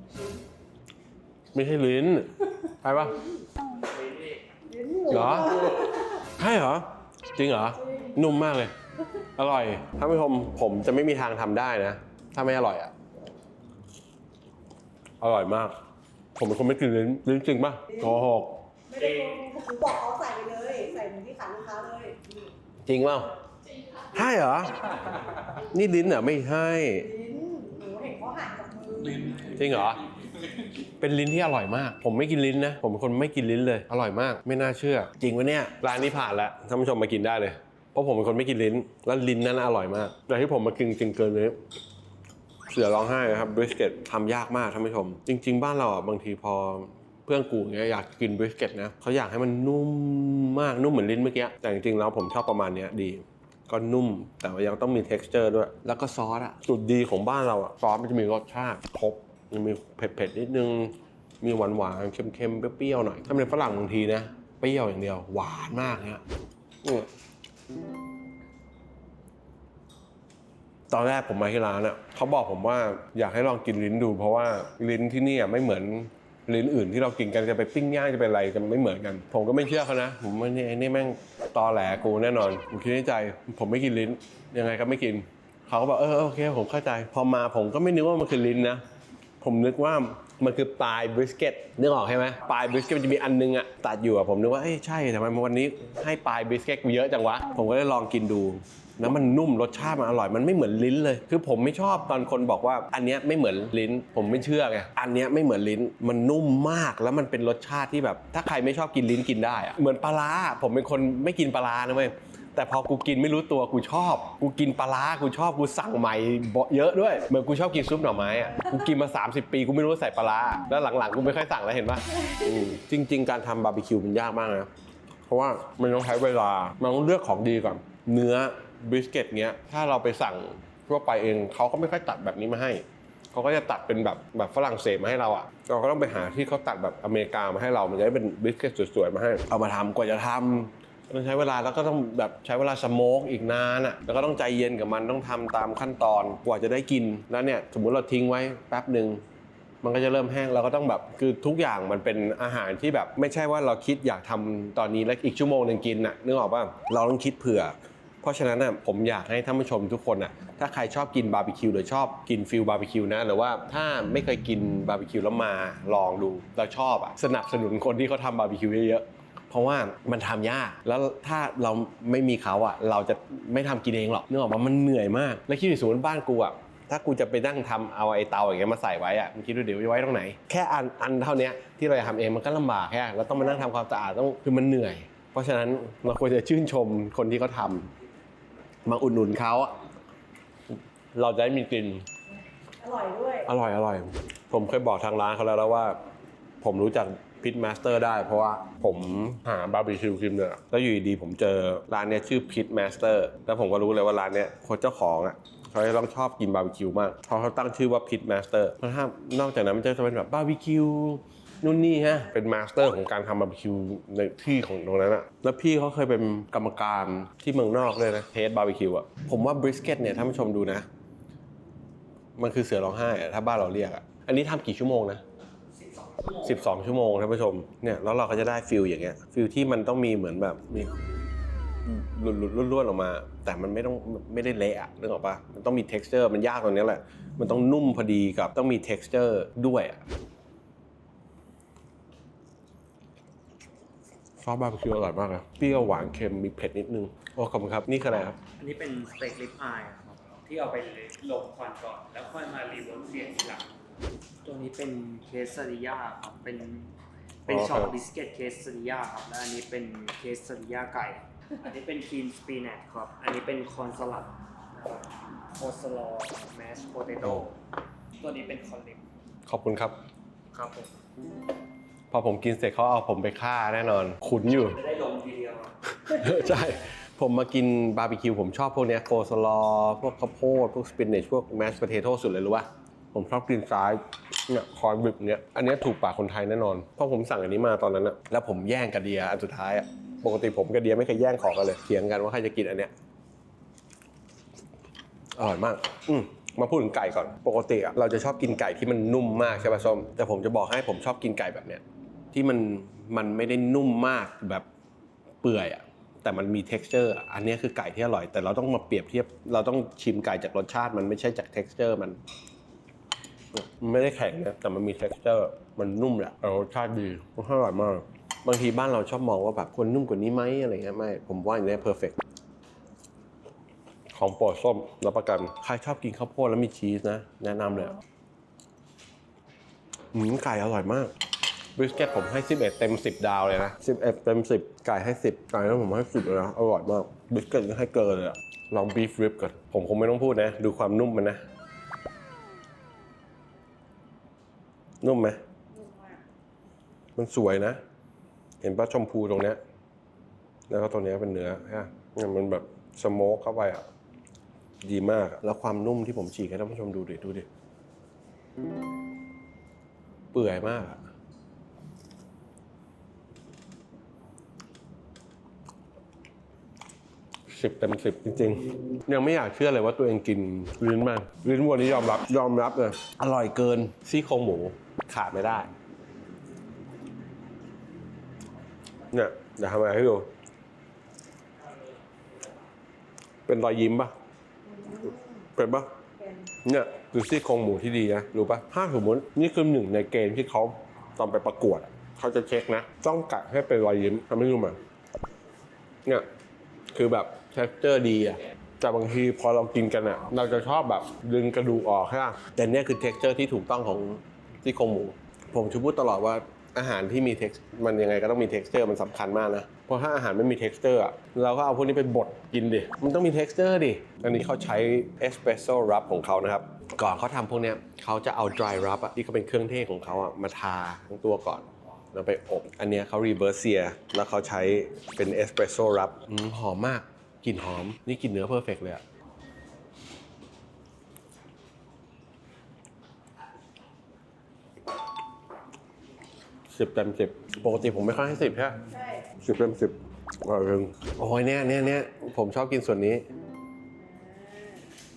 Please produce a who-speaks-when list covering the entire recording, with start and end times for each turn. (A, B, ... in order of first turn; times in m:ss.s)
0:01.5-0:03.2 A
0:03.8-0:04.4 B
0:04.7-0:05.7 C
0:05.1-0:08.7 A
0:09.4-0:12.9 A
0:15.2-0:15.7 A
0:16.4-0:18.6 A
0:18.9-0:22.2 C
0:19.0-0:19.4 B
0:22.8-0:23.3 A
0:24.1-0:27.1 A
0:27.0-0:29.3 C
0:29.3-0:30.0 A
0:30.8-0:41.6 A
0:42.7-1:06.2 A
1:06.8-1:07.1 A
1:10.9-1:28.8 A
1:29.4-2:04.7 A
2:05.3-2:29.2 A
2:29.8-3:07.9 A
3:08.8-3:09.7 A
3:10.7-3:12.0 A
3:12.8-3:13.5 C
3:13.4-3:16.0 A
3:16.6-3:40.8 A
3:42.4-3:45.2 A
3:45.8-3:46.5 B
3:46.4-3:51.0 A
3:51.8-4:00.0 A
4:04.4-4:08.4 A
4:08.6-4:13.7 B
4:14.4-4:16.9 B
4:17.4-4:18.0 A
4:17.5-4:27.5 B
4:28.2-4:29.0 B
4:29.4-4:30.0 A
4:30.5-4:30.9 B
4:32.1-4:34.8 A
4:34.6-4:35.7 B
4:36.0-4:52.9 A
4:55.4-5:04.6 A
5:05.4-5:12.2 A
5:13.5-5:22.2 A
5:24.1-5:27.9 A
5:30.1-5:31.1 A
5:31.8-5:41.4 A
5:45.0-5:45.4 A
5:45.7-5:46.2 C
5:47.2-5:47.8 A
5:48.6-5:49.6 A
5:50.7-5:53.8 A
5:54.8-5:57.5 A
6:00.3-6:01.0 A
6:07.5-6:15.7 A
6:19.1-6:20.3 A
6:23.5-6:24.1 A
6:24.7-6:25.2 C
6:25.6-6:25.9 A
6:26.2-6:26.5 C
6:26.6-6:34.8 A
6:36.9-7:09.0 A
7:16.7-7:18.8 A
7:18.9-7:19.3 C
7:19.4-7:23.2 A
7:24.0-7:24.8 C